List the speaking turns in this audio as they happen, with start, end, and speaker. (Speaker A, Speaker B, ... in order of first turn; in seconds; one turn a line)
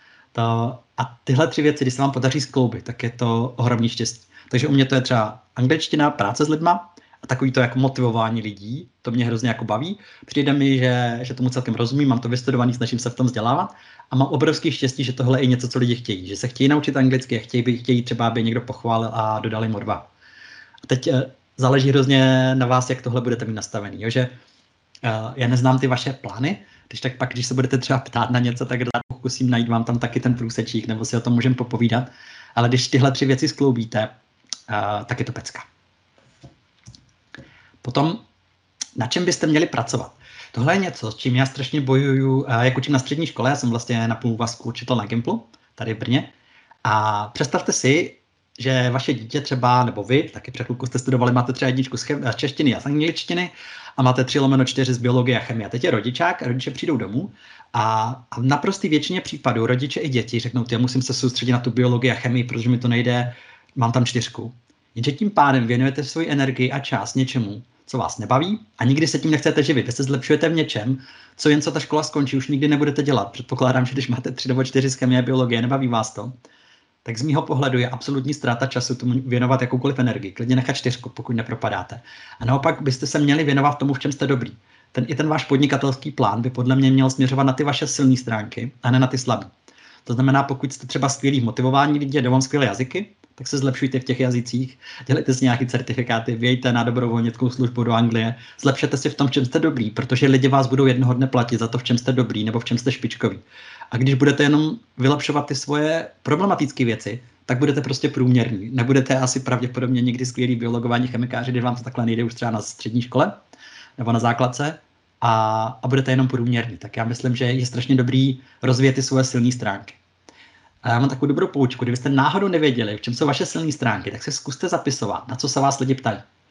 Speaker A: 0.3-20.1
Speaker A: 20.9-24.3
Speaker A: 25.0-34.1
Speaker A: 34.7-35.7
Speaker A: 37.8-38.2
Speaker A: 39.0-46.3
Speaker A: 46.8-76.3
Speaker A: 77.0-89.5
Speaker A: 90.0-113.4
Speaker A: 114.0-120.0
Speaker A: 120.8-126.2